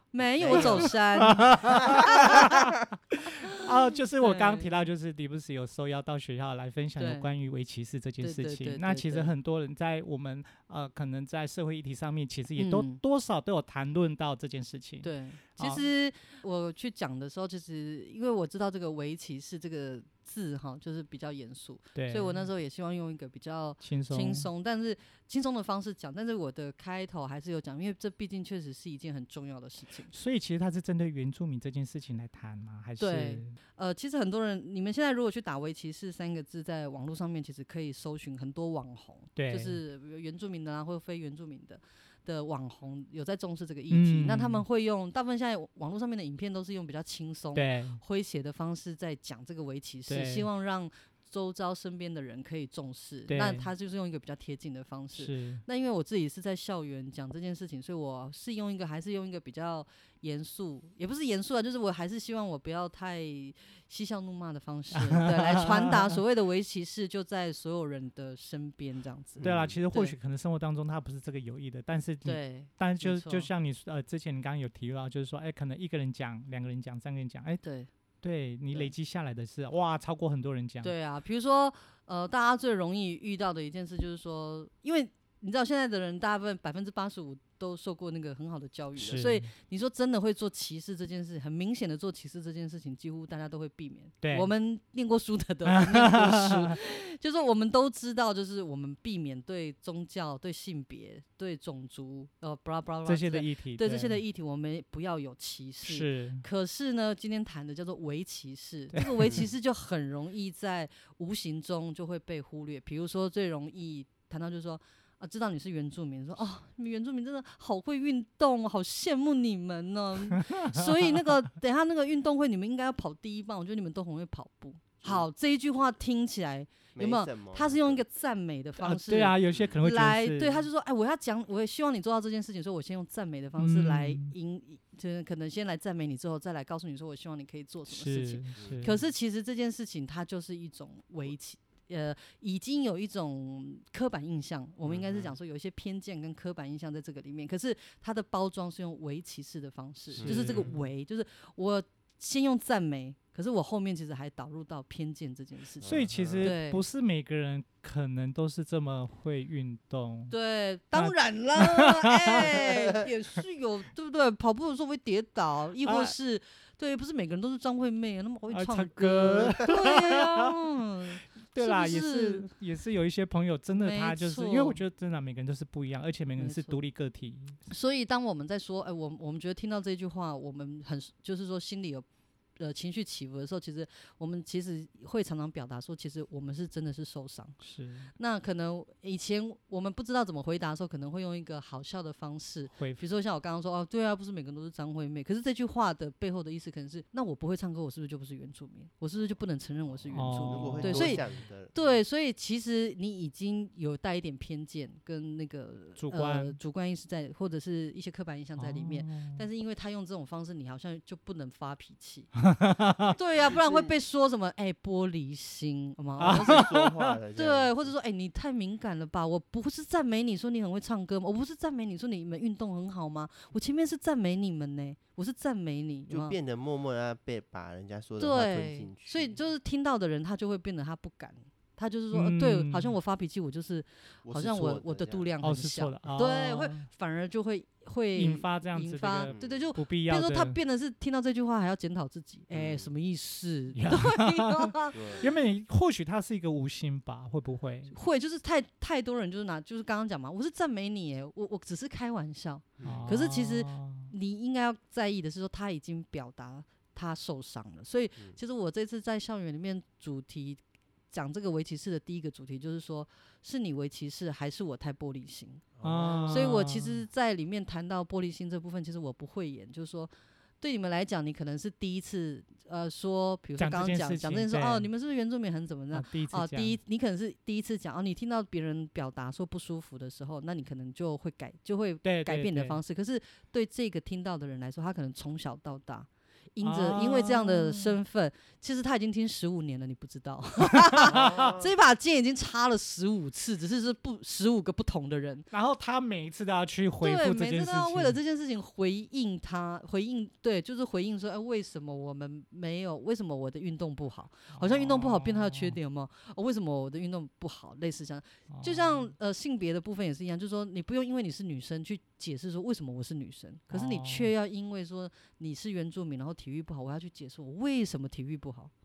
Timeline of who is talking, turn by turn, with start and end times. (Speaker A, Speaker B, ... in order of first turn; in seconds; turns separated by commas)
Speaker A: 0.1-2.6, Speaker B: 0.2-0.9, Speaker C: 0.5-15.8, Speaker A: 3.3-3.7, Speaker A: 4.2-4.7, Speaker A: 7.0-7.3, Speaker A: 8.2-9.3, Speaker A: 12.6-13.0, Speaker A: 15.0-30.1, Speaker C: 21.9-22.5, Speaker C: 23.8-24.5, Speaker C: 30.1-33.5, Speaker A: 33.0-70.1, Speaker C: 39.4-39.8, Speaker C: 43.9-44.6, Speaker C: 47.5-48.0, Speaker C: 50.1-50.5, Speaker C: 53.3-53.7, Speaker C: 55.1-55.6, Speaker C: 65.0-66.1, Speaker B: 69.4-69.8, Speaker C: 69.4-77.6, Speaker A: 72.2-73.5, Speaker A: 77.6-77.9, Speaker C: 78.2-80.9, Speaker A: 80.8-156.8, Speaker C: 89.0-89.5, Speaker C: 94.2-94.5, Speaker C: 95.6-96.8, Speaker C: 103.0-104.2, Speaker C: 105.8-106.4, Speaker C: 109.0-109.3, Speaker C: 120.4-121.0, Speaker B: 127.0-128.0, Speaker C: 128.8-130.7, Speaker B: 129.4-129.8, Speaker C: 133.6-134.3, Speaker C: 137.9-138.9, Speaker B: 138.6-139.0, Speaker B: 144.8-145.3, Speaker B: 150.1-150.7, Speaker C: 150.2-150.8, Speaker B: 155.8-156.5, Speaker C: 155.8-160.3, Speaker A: 160.3-172.5, Speaker C: 160.9-162.7, Speaker C: 165.8-166.2, Speaker C: 168.5-170.5, Speaker B: 169.3-169.6, Speaker C: 171.5-177.6, Speaker A: 173.8-174.8, Speaker A: 176.4-176.8, Speaker A: 177.7-182.1, Speaker A: 182.6-187.6, Speaker C: 187.6-188.1, Speaker A: 188.2-212.3, Speaker C: 192.7-193.0, Speaker B: 200.0-202.0, Speaker C: 200.1-201.2, Speaker C: 206.0-206.6, Speaker C: 208.6-209.4, Speaker C: 212.4-213.1, Speaker B: 213.1-213.9, Speaker A: 213.1-216.7, Speaker B: 216.2-217.9, Speaker C: 216.2-217.1, Speaker A: 217.3-226.4, Speaker B: 226.1-229.4, Speaker A: 228.2-245.2, Speaker C: 232.1-232.9, Speaker B: 234.2-235.3, Speaker C: 235.4-236.9, Speaker C: 238.2-240.6, Speaker B: 239.2-239.7, Speaker B: 242.5-242.9, Speaker C: 243.8-247.9, Speaker B: 244.9-245.3, Speaker A: 247.9-265.7, Speaker B: 252.8-253.1, Speaker C: 252.8-254.1, Speaker B: 265.8-266.6, Speaker C: 265.8-267.0, Speaker A: 266.3-295.5, Speaker C: 273.6-274.9, Speaker C: 275.9-276.8, Speaker C: 282.0-282.8, Speaker C: 286.6-288.0, Speaker C: 290.9-291.5, Speaker B: 291.1-291.7, Speaker C: 295.5-298.2, Speaker A: 297.0-318.7, Speaker C: 304.5-305.8, Speaker C: 308.5-309.1, Speaker C: 313.7-314.3